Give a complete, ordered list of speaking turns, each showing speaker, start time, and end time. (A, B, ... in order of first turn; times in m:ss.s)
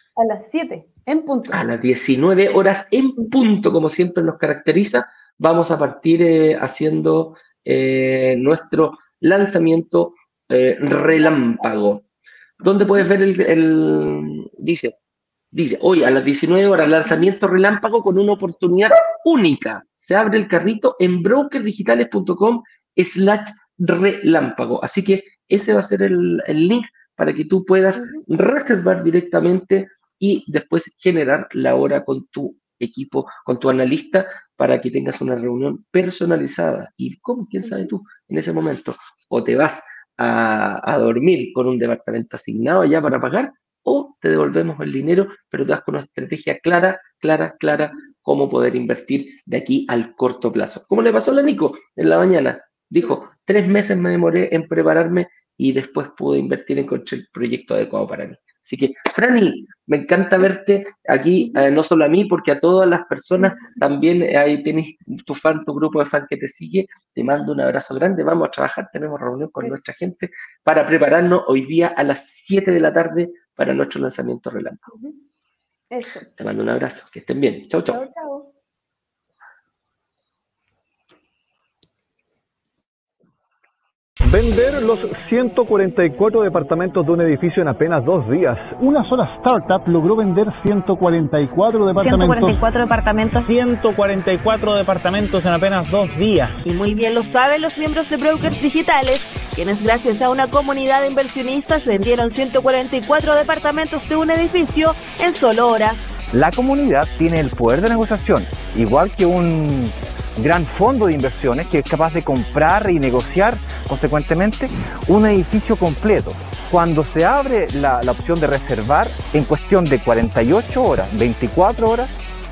0:00.2-0:01.6 A
0:01.5-0:12.0 B
0:10.9-0:11.3 A
0:12.6-0:14.9 B
0:15.5-1:14.9 B
0:28.0-0:28.2 A
0:37.6-0:37.9 A
1:14.9-1:15.2 A
1:15.9-1:16.3 A
1:16.4-1:18.0 B
1:17.9-1:18.5 A
1:24.2-1:28.8 C
1:28.8-1:32.6 D
1:32.0-1:33.5 E
1:33.4-1:36.5 F
1:36.6-1:46.0 E
1:46.3-2:02.1 G